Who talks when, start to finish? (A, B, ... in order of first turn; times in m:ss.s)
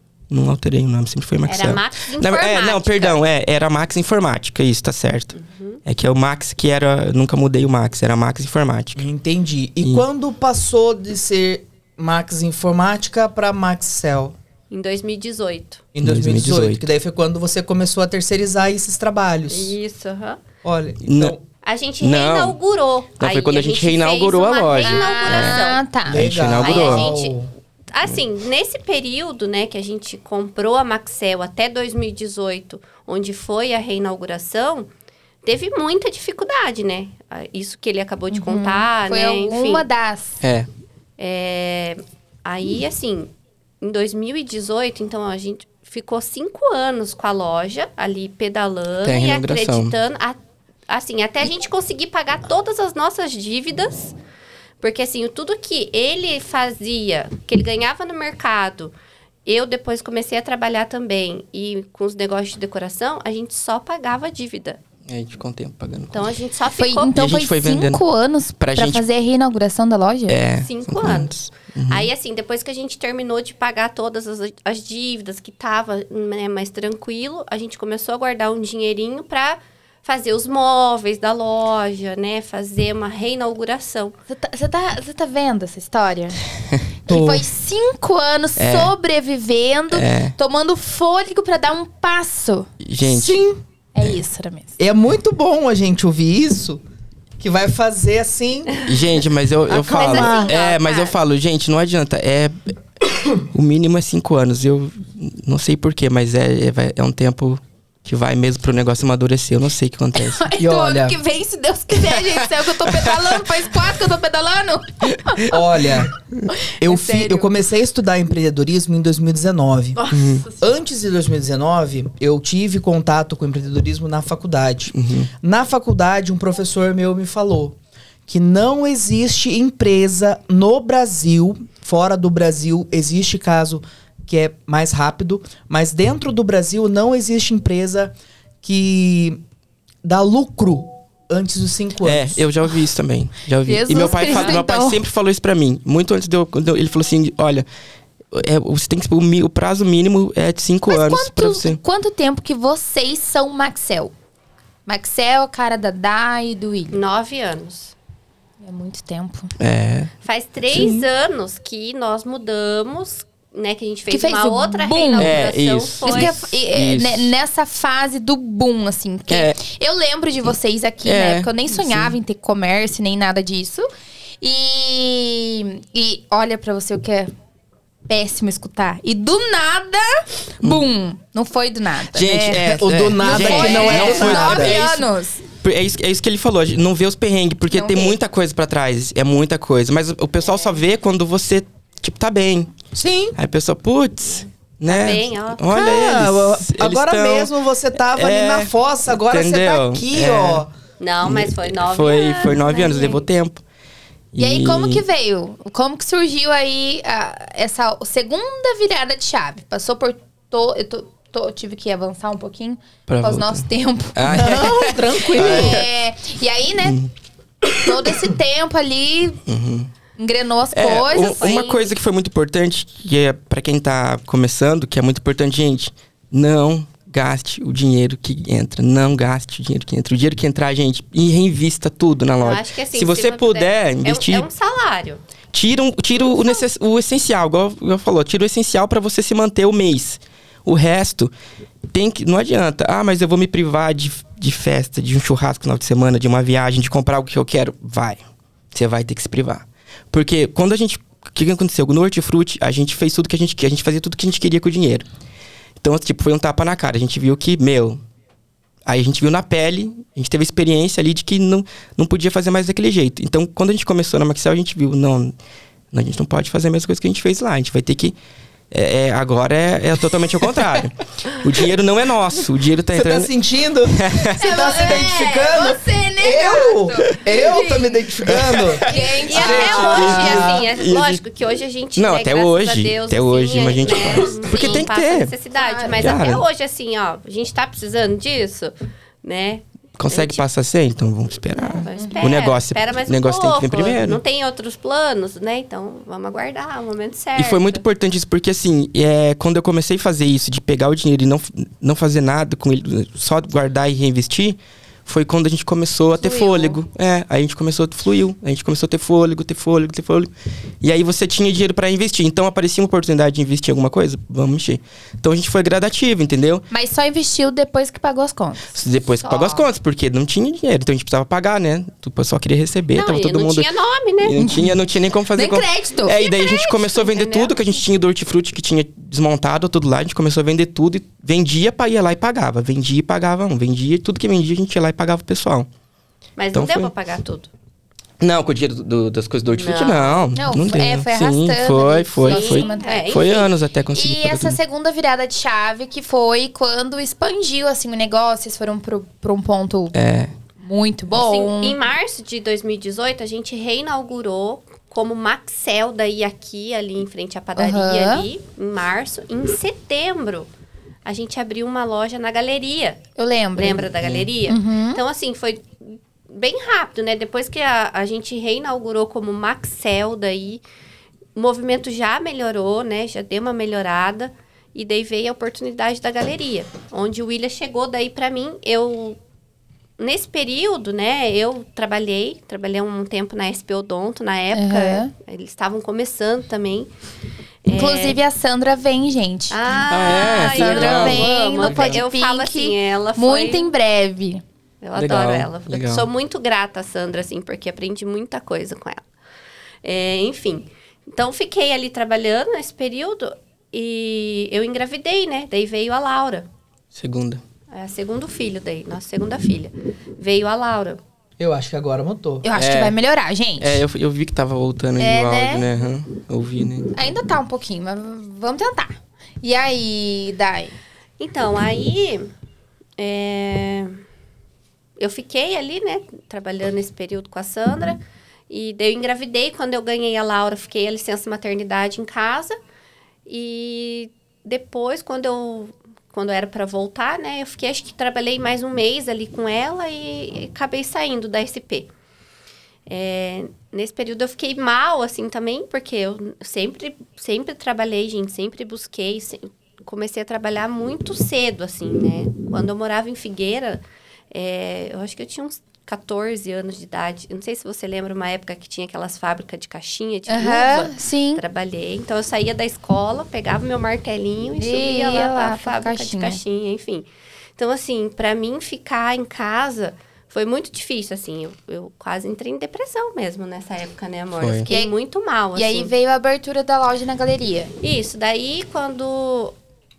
0:00.3-0:09.0 A
0:01.5-0:03.2 B
0:05.4-0:05.8 B
0:09.0-0:14.3 C
0:14.7-0:15.8 B
0:15.9-0:19.7 C
0:16.0-0:16.9 A
0:19.5-0:20.4 B
0:20.6-0:21.4 C
0:21.0-0:21.4 A
0:21.6-0:25.8 B
0:22.0-0:22.6 A
0:23.2-0:27.1 A
0:24.8-0:26.2 D
0:26.1-0:27.5 C
0:26.5-0:27.4 B
0:27.9-0:34.9 B
0:35.4-0:39.8 B
0:38.3-0:40.4 D
0:40.4-0:40.7 A
0:41.2-0:54.1 B
0:49.0-0:50.0 A
0:54.8-0:58.9 B
0:59.4-1:04.8 B
1:05.0-1:06.2 A
1:06.1-1:07.2 B
1:06.8-1:10.4 D
1:07.1-1:08.0 A
1:08.6-1:09.0 A
1:10.3-1:12.1 A
1:10.6-1:24.1 B
1:24.3-1:26.4 D
1:27.0-1:32.7 D
1:27.1-1:27.4 C
1:28.6-1:29.0 A
1:29.9-1:30.3 A
1:32.8-1:33.4 A
1:33.0-1:33.6 C
1:34.0-1:34.7 D
1:34.8-1:36.8 C
1:37.4-1:38.9 C
1:38.7-1:39.0 B
1:38.8-1:42.7 A
1:39.7-1:40.5 C
1:39.9-1:41.2 B
1:43.5-1:50.5 A
1:50.2-1:55.6 D
1:50.6-1:51.2 C
1:52.0-1:53.5 A
1:55.1-1:55.4 A
1:55.4-1:56.1 C
1:56.5-1:57.5 D
1:56.8-2:19.4 C
2:00.0-2:00.6 D
2:00.1-2:00.5 A
2:04.9-2:05.3 A
2:20.0-2:22.4 C
2:22.0-2:27.6 A
2:23.6-2:25.0 D
2:28.3-2:31.8 A
2:30.9-2:34.1 D
2:34.9-2:37.0 D
2:36.9-2:37.9 B
2:38.6-2:39.5 D
2:39.6-2:40.1 A
2:40.2-2:46.4 B
2:44.1-2:45.4 D
2:45.2-2:47.3 A
2:46.0-2:53.9 D
2:49.3-2:49.6 A
2:51.0-2:52.2 A
2:54.4-2:57.3 D
2:58.1-3:02.6 D
3:02.1-3:05.0 A
3:02.6-3:04.8 C
3:03.2-3:05.4 D
3:05.6-3:12.7 A
3:07.7-3:08.2 D
3:13.0-3:13.4 C
3:13.3-3:20.7 A
3:14.3-3:15.8 B
3:15.7-3:20.7 C
3:21.0-3:23.2 B
3:21.2-3:23.6 A
3:24.3-3:25.0 A
3:24.4-3:37.0 D
3:33.1-3:35.9 A
3:34.2-3:35.9 C
3:36.8-3:37.1 A
3:37.7-3:39.4 D
3:39.4-3:39.9 A
3:40.2-3:41.5 D
3:40.7-3:54.5 A
3:41.1-3:41.9 B
3:52.4-3:55.2 B
3:55.5-4:01.3 A
3:56.2-3:56.6 B
4:01.9-4:08.2 A
4:08.7-4:15.0 A
4:15.8-4:18.0 A
4:18.9-4:25.3 A
4:25.9-4:28.2 A
4:28.7-4:33.3 A
4:32.9-4:40.6 C
4:33.9-4:35.1 A
4:34.4-4:40.1 D
4:38.2-4:41.2 A
4:39.3-4:50.4 B
4:42.0-4:45.3 A
4:45.6-4:46.1 D
4:46.0-4:46.4 A
4:50.0-4:54.2 A
4:51.6-4:57.8 B
4:52.0-4:52.2 D
4:57.4-5:16.6 A
5:06.2-5:06.8 D
5:16.7-5:19.6 D
5:18.7-5:23.7 A
5:22.9-5:24.4 B
5:24.2-5:35.7 A
5:24.4-5:24.7 D
5:25.3-5:26.6 D
5:26.4-5:27.8 B
5:36.4-5:37.5 B
5:36.5-5:36.9 A
5:38.2-5:44.6 A
5:39.5-5:40.3 B
5:40.3-5:43.2 D
5:42.2-5:43.5 B
5:43.9-5:50.0 D
5:49.9-5:50.3 A
5:50.6-5:51.8 D
5:51.1-6:00.5 B
5:57.6-5:58.3 D
6:01.0-6:03.0 B
6:03.2-6:03.9 D
6:03.6-6:10.6 B
6:03.9-6:04.3 A
6:04.5-6:05.0 D
6:11.4-6:19.2 B
6:20.0-6:26.9 B
6:24.5-6:25.1 D
6:27.6-6:28.2 B
6:27.7-6:34.4 D
6:29.5-6:33.7 B
6:29.9-6:32.0 A
6:34.8-6:39.1 B
6:35.0-6:36.1 A
6:39.8-6:46.5 B
6:46.9-6:47.4 A
6:47.7-6:51.0 B
6:51.4-6:52.4 C
6:52.4-6:53.8 D
6:52.6-6:53.0 A
6:53.6-6:56.9 A
6:55.0-6:55.6 D
6:56.9-7:00.7 D
7:01.2-7:02.3 B
7:03.0-7:04.0 B
7:05.0-7:12.6 B
7:13.3-7:21.9 B
7:22.9-7:55.9 B
7:40.3-7:41.4 D
7:44.6-7:46.4 D
7:54.4-7:54.7 A
7:55.6-7:57.7 D
7:57.8-7:59.6 B